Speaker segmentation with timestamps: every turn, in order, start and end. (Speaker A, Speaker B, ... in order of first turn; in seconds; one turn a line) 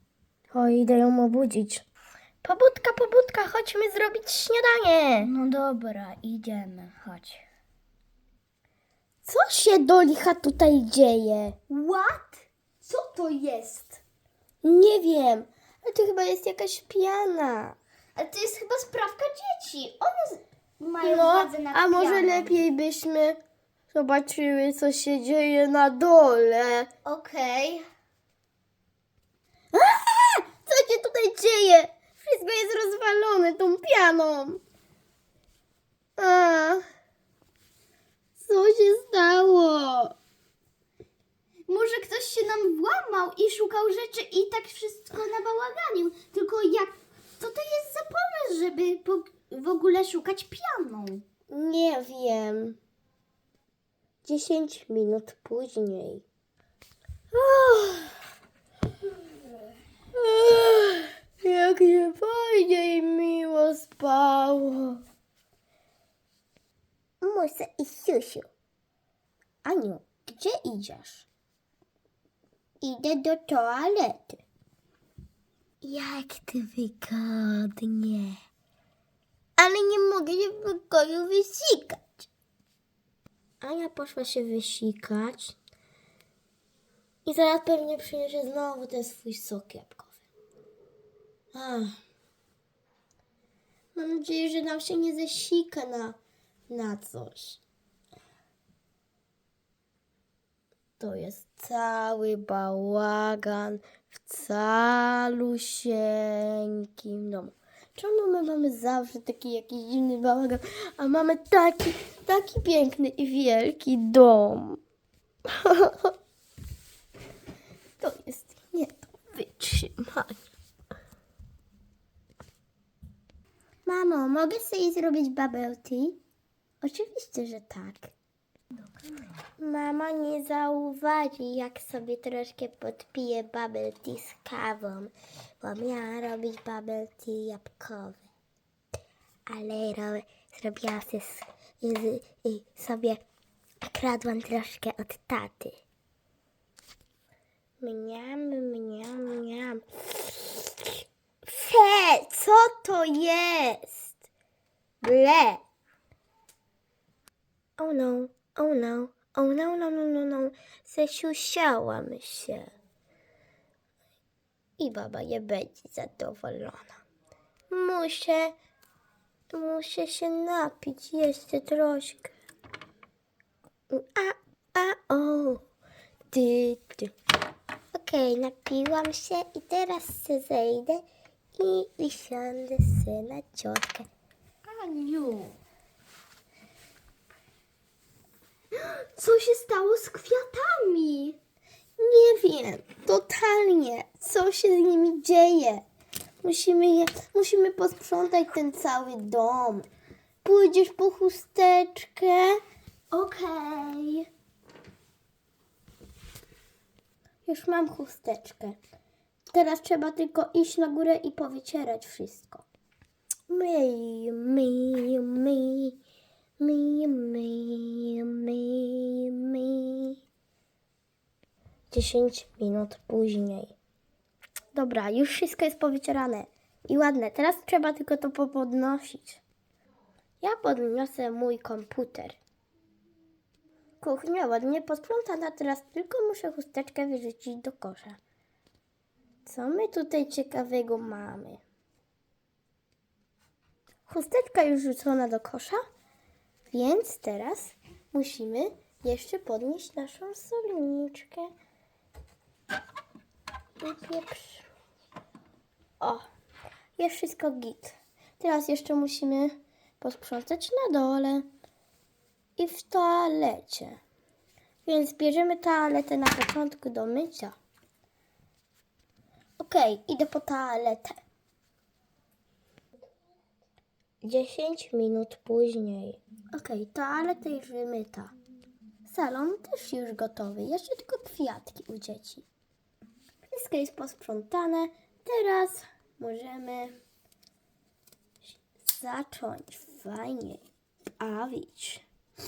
Speaker A: 0.5-1.9
Speaker A: 2.4-5.3
Speaker B: 5.2-7.4
Speaker A: 9.2-11.6
Speaker B: 11.7-14.0
Speaker A: 14.6-17.8
Speaker B: 18.1-22.6
Speaker A: 21.0-23.4
Speaker A: 23.9-26.9
Speaker B: 27.0-27.9
Speaker A: 29.7-34.6
Speaker A: 36.2-36.8
Speaker A: 38.4-40.1
Speaker B: 41.7-51.2
Speaker A: 51.5-52.8
Speaker A: 54.2-56.2
Speaker A: 57.3-58.1
Speaker A: 60.1-65.0
Speaker A: 67.2-68.5
Speaker A: 69.6-71.3
Speaker A: 72.8-74.4
Speaker A: 75.8-78.4
Speaker A: 79.6-82.3
Speaker A: 83.6-85.5
Speaker A: 87.2-90.2
Speaker A: 91.5-92.0
Speaker A: 93.9-96.2
Speaker A: 96.7-97.6
Speaker A: 101.0-114.8
Speaker A: 115.5-116.1
Speaker A: 118.0-120.5
Speaker A: 123.8-126.2
Speaker A: 126.8-128.1
Speaker A: 129.6-138.2
Speaker A: 139.5-143.2
Speaker A: 143.8-145.8
Speaker A: 147.8-154.1
Speaker A: 155.0-155.6
Speaker A: 157.8-162.7
Speaker A: 164.8-167.0
Speaker A: 167.7-168.5
Speaker A: 169.5-172.3
Speaker A: 173.9-175.6
Speaker A: 176.3-177.1
Speaker A: 177.9-181.0
Speaker A: 181.6-184.1
Speaker B: 184.6-185.6
Speaker B: 188.7-191.4
Speaker A: 192.0-195.8
Speaker A: 196.4-199.8
Speaker A: 200.4-202.6
Speaker A: 203.1-204.2
Speaker A: 207.4-208.8
Speaker A: 209.5-212.6
Speaker A: 213.5-215.9
Speaker A: 216.6-220.2
Speaker A: 221.9-223.8
Speaker A: 224.7-229.4
Speaker A: 230.4-232.4
Speaker A: 234.0-238.2
Speaker A: 239.4-241.6
Speaker A: 244.1-245.8
Speaker A: 246.7-251.5
Speaker A: 253.8-254.7
Speaker A: 256.0-256.3
Speaker A: 257.0-261.5
Speaker A: 262.6-264.0
Speaker A: 264.8-267.5
Speaker A: 269.6-271.2
Speaker A: 274.2-278.3
Speaker A: 279.0-282.4
Speaker A: 283.5-286.9
Speaker A: 288.7-290.6
Speaker A: 291.2-292.0